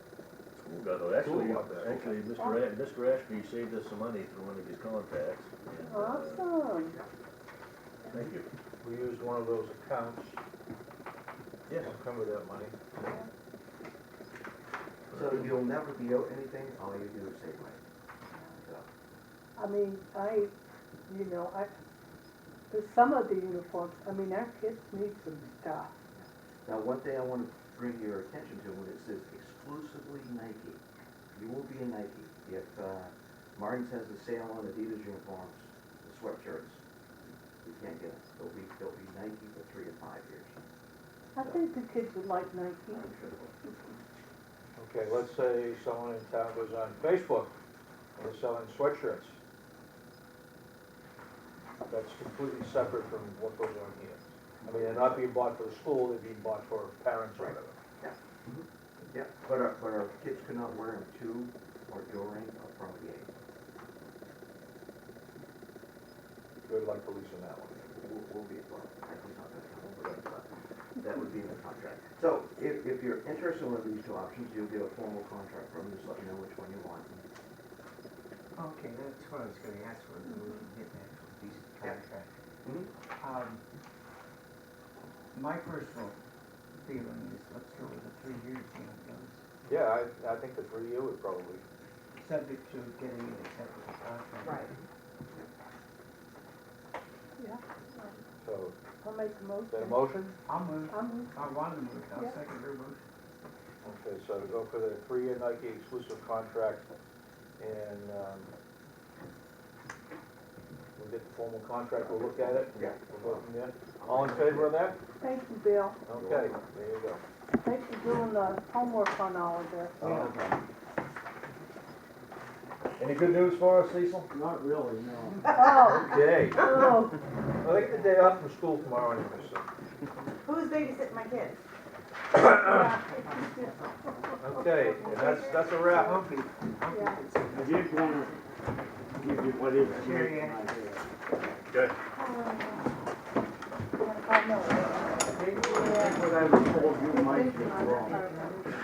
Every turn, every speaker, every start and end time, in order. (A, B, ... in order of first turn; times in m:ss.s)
0:00.6-0:06.5 A
0:01.2-0:02.1 B
0:05.9-0:06.9 C
0:08.1-0:08.5 A
0:08.8-0:10.4 B
0:11.7-0:11.9 A
0:11.8-0:12.7 B
0:15.1-0:15.5 A
0:15.1-0:17.8 D
0:18.6-0:18.9 D
0:19.6-0:20.5 C
0:21.1-0:21.7 C
0:22.7-0:25.9 C
0:26.1-0:30.8 D
0:31.3-0:36.8 D
0:37.6-0:40.6 D
0:41.3-0:43.7 C
0:42.9-0:43.5 D
0:44.8-0:47.5 B
0:48.2-0:49.4 B
0:51.9-0:57.8 B
0:54.6-0:55.3 D
0:57.4-1:03.3 D
1:06.6-1:07.9 B
1:07.9-1:17.2 D
1:18.5-1:22.3 E
1:22.6-1:22.9 D
1:23.2-1:23.6 E
1:25.3-1:26.2 E
1:26.8-1:29.4 E
1:29.6-1:31.6 B
1:32.2-1:34.7 E
1:34.4-1:34.7 F
1:37.4-1:38.1 C
1:38.4-1:38.8 B
1:39.0-1:40.2 C
1:39.7-1:40.3 B
1:40.4-1:43.0 E
1:40.9-1:41.3 C
1:43.8-1:46.9 B
1:47.6-1:48.5 B
1:50.9-1:55.0 B
1:52.7-1:54.9 D
1:55.2-1:56.0 C
1:56.0-1:57.2 B
1:56.1-1:56.5 D
1:57.6-2:00.1 C
2:00.0-2:00.3 D
2:00.0-2:00.3 E
2:03.3-2:03.7 B
2:04.3-2:05.6 G
2:05.5-2:07.2 C
2:06.0-2:06.8 B
2:07.6-2:09.7 B
2:10.4-2:11.6 F
2:12.6-2:13.7 C
2:13.3-2:13.7 F
2:14.3-2:15.5 C
2:14.4-2:16.2 B
2:14.8-2:15.9 F
2:15.9-2:18.2 E
2:16.9-2:17.2 C
2:17.5-2:18.4 G
2:19.1-2:21.0 G
2:19.8-2:20.9 E
2:22.2-2:22.9 C
2:24.0-2:26.3 C
2:25.3-2:28.4 G
2:25.3-2:28.2 E
2:26.9-2:28.7 C